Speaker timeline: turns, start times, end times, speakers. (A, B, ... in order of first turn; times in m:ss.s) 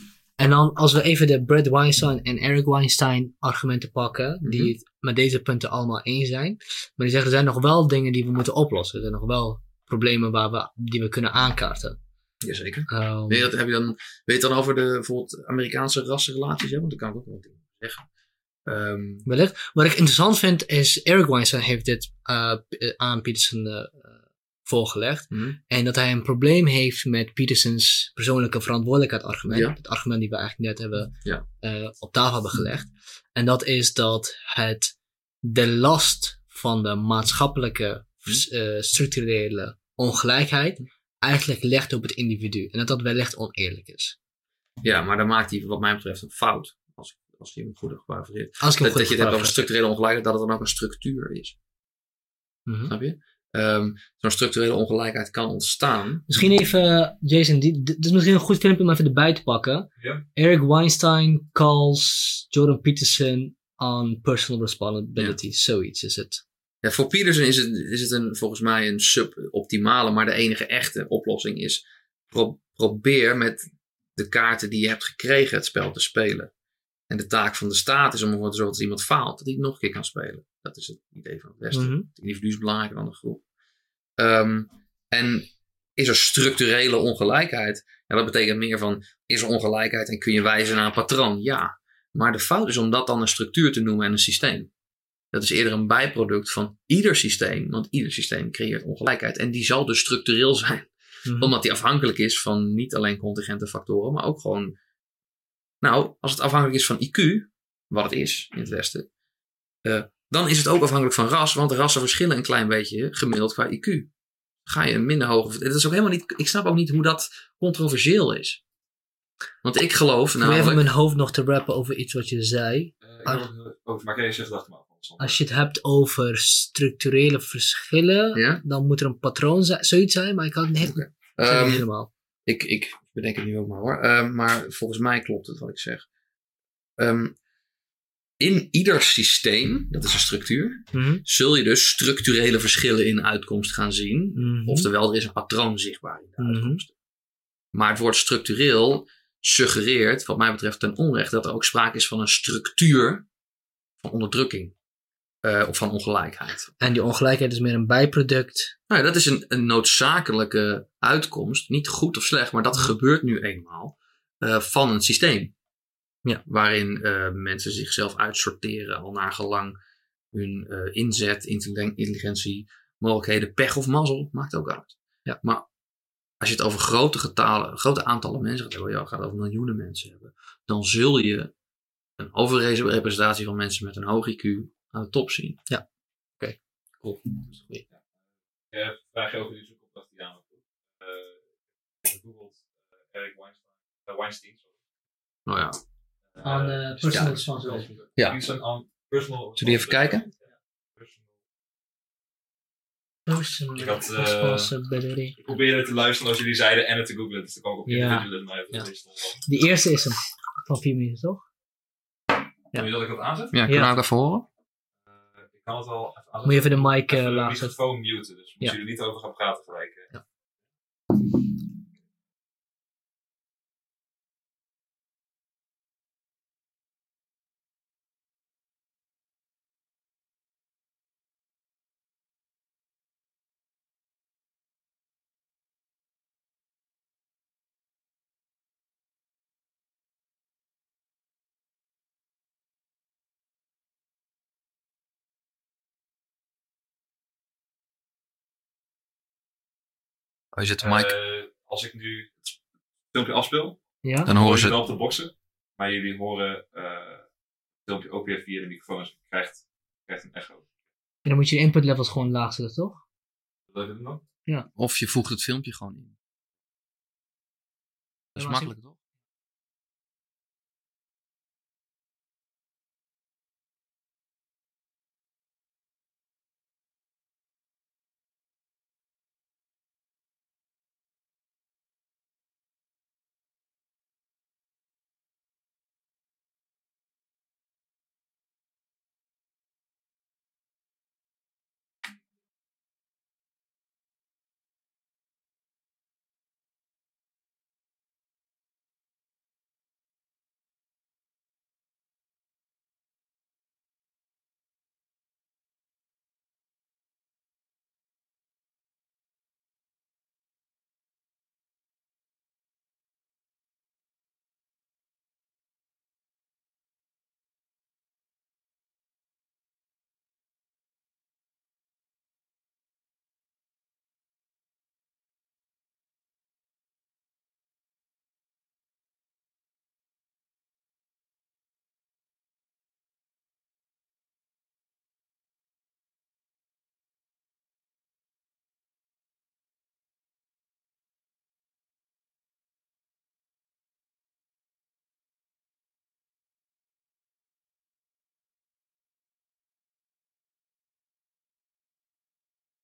0:00.4-0:12.0 A
0:04.4-0:04.7 B
0:12.4-0:18.1 B
0:12.9-0:13.5 A
0:18.7-0:19.3 B
0:19.3-0:44.2 A
0:25.3-0:25.6 B
0:29.5-0:29.8 B
0:44.8-0:51.6 B
0:48.6-0:49.6 A
0:52.7-0:52.9 A
0:52.9-0:56.3 B
0:56.3-1:06.4 A
1:06.8-1:16.5 B
1:17.1-1:23.4 B
1:21.7-1:22.1 A
1:24.2-1:34.7 B
1:35.3-1:44.8 B
1:41.3-1:41.6 A
1:45.8-1:49.1 B
1:49.8-1:54.1 B
1:54.7-1:58.6 B
1:59.6-2:00.9 B
2:00.4-2:03.4 A
2:03.0-2:05.4 C
2:05.2-2:12.1 A
2:08.3-2:08.6 B
2:10.8-2:11.8 B
2:12.5-2:16.0 B
2:17.0-2:17.4 B
2:18.4-2:26.9 B
2:20.9-2:21.2 A
2:24.4-2:24.9 A
2:26.4-2:26.8 A
2:27.7-2:33.3 B
2:34.0-2:34.8 B
2:35.4-2:36.8 B
2:36.8-2:38.8 A
2:38.9-2:45.5 B
2:46.4-2:49.8 B
2:50.3-2:55.7 B
2:56.4-3:01.5 B
3:02.2-3:05.7 B
3:06.4-3:07.2 A
3:08.7-3:11.4 C
3:12.0-3:12.6 C
3:13.1-3:14.7 C
3:15.5-3:15.8 B
3:16.4-3:20.4 C
3:16.4-3:18.0 A
3:17.1-3:17.4 B
3:19.6-3:20.2 B
3:23.3-3:25.3 A
3:23.8-3:24.7 C
3:25.4-3:29.4 C
3:27.9-3:28.8 A
3:29.5-3:31.4 A
3:32.7-3:33.6 C
3:33.5-3:34.5 B
3:35.4-3:40.1 C
3:36.4-3:37.7 A
4:10.5-4:11.1 B
4:10.8-4:12.5 C
4:13.1-4:17.2 C
4:14.0-4:14.3 A
4:14.3-4:14.8 B
4:17.9-4:20.6 C
4:21.3-4:23.0 A
4:23.7-4:24.2 C
4:24.8-4:26.2 B
4:28.4-4:29.0 B
4:28.4-4:28.7 A